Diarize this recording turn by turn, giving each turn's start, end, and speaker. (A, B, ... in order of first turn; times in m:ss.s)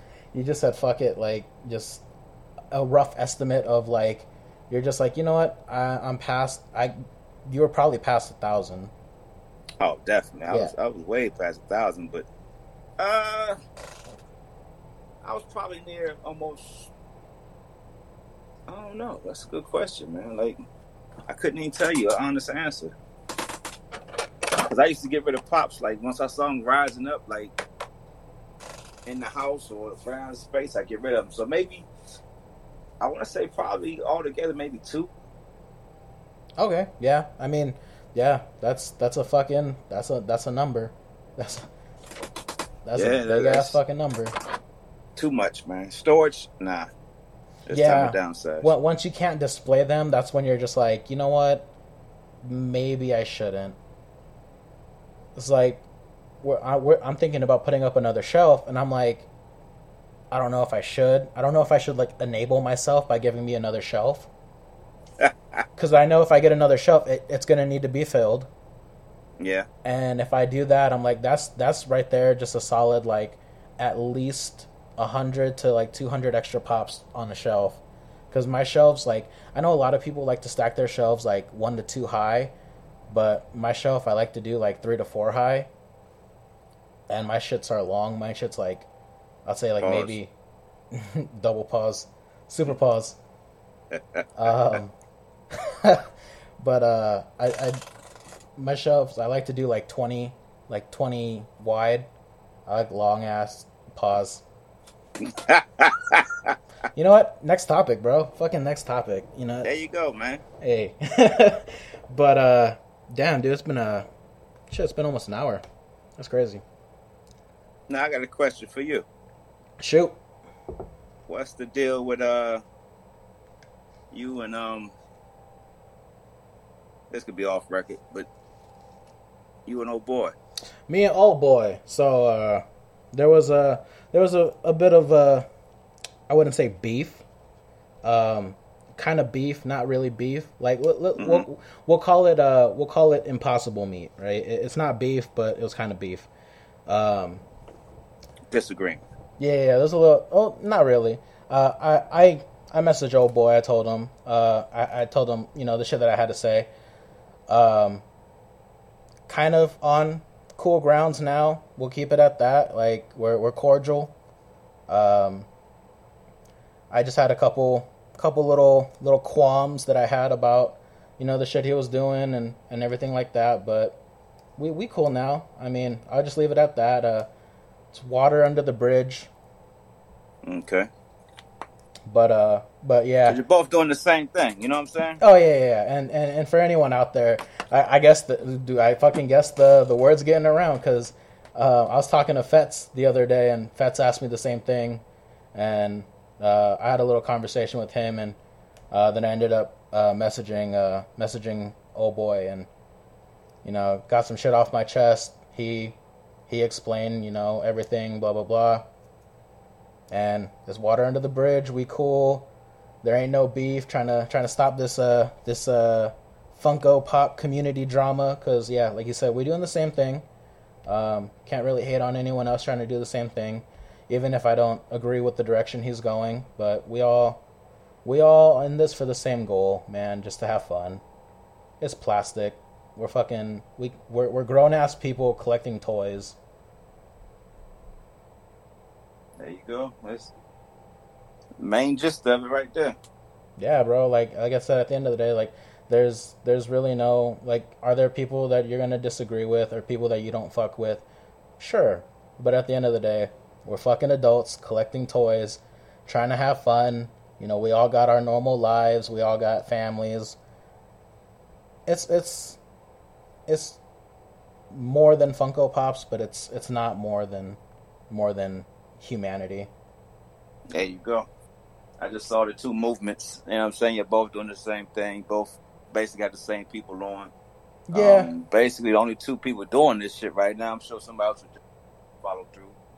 0:00.3-0:02.0 A
0:02.7-0:08.9 A
0:09.8-0:12.2 B
0:13.0-0:13.6 B
0:15.2-0:16.9 B
0:18.7-0:20.6 B
0:21.3-0:22.9 B
0:24.5-0:27.6 B
0:29.0-0:31.9 B
0:33.0-0:35.1 B
0:36.6-0:41.7 A
0:42.8-0:44.4 A
0:43.0-0:43.8 B
0:45.2-0:46.9 B
0:47.7-0:48.7 B
0:47.7-0:51.7 A
0:52.4-0:53.8 A
0:55.4-0:55.8 A
0:56.4-0:59.3 A
1:00.3-1:04.3 A
1:05.2-1:05.6 B
1:05.8-1:08.5 A
1:09.4-1:09.7 B
1:09.8-1:22.5 A
1:23.1-1:25.7 A
1:27.1-1:28.9 A
1:29.4-1:30.3 A
1:29.8-1:30.1 B
1:30.9-1:33.2 A
1:33.9-1:34.2 B
1:34.4-1:34.9 A
1:35.5-1:37.8 A
1:38.6-1:42.1 A
1:42.7-1:44.4 A
1:45.2-1:46.5 B
1:46.9-1:49.7 A
1:49.6-1:50.4 B
1:50.6-1:54.1 A
1:54.7-1:55.6 A
1:56.2-1:56.6 A
1:57.9-1:59.0 B
1:59.8-2:00.2 A
2:01.3-2:02.6 B
2:04.1-2:04.9 B
2:07.1-2:08.3 B
2:09.6-2:10.4 B
2:10.9-2:15.5 A
2:16.3-2:17.2 A
2:18.0-2:26.3 A
2:21.2-2:21.5 B
2:26.8-2:27.4 A
2:28.5-2:29.0 B
2:29.4-2:36.7 A
2:37.5-2:38.0 A
2:39.3-2:44.1 A
2:44.9-2:45.5 A
2:46.9-2:54.0 A
2:54.6-2:57.3 A
2:57.9-2:59.3 A
3:00.4-3:00.9 B
3:02.0-3:03.4 A
3:03.3-3:05.2 B
3:05.2-3:18.4 A
3:18.9-3:22.7 A
3:23.6-3:28.9 A
3:30.1-3:32.5 A
3:33.0-3:40.2 A
3:40.8-3:47.4 A
3:48.0-3:51.0 A
3:51.8-3:56.4 A
3:59.4-4:00.3 B
4:01.6-4:02.9 B
4:03.6-4:11.0 A
4:11.6-4:20.4 A
4:21.8-4:22.6 A
4:23.5-4:23.8 A
4:24.7-4:29.7 A
4:30.7-4:31.3 B
4:32.0-4:37.3 B
4:37.9-4:38.3 A
4:37.9-4:41.6 B
4:42.2-4:42.8 B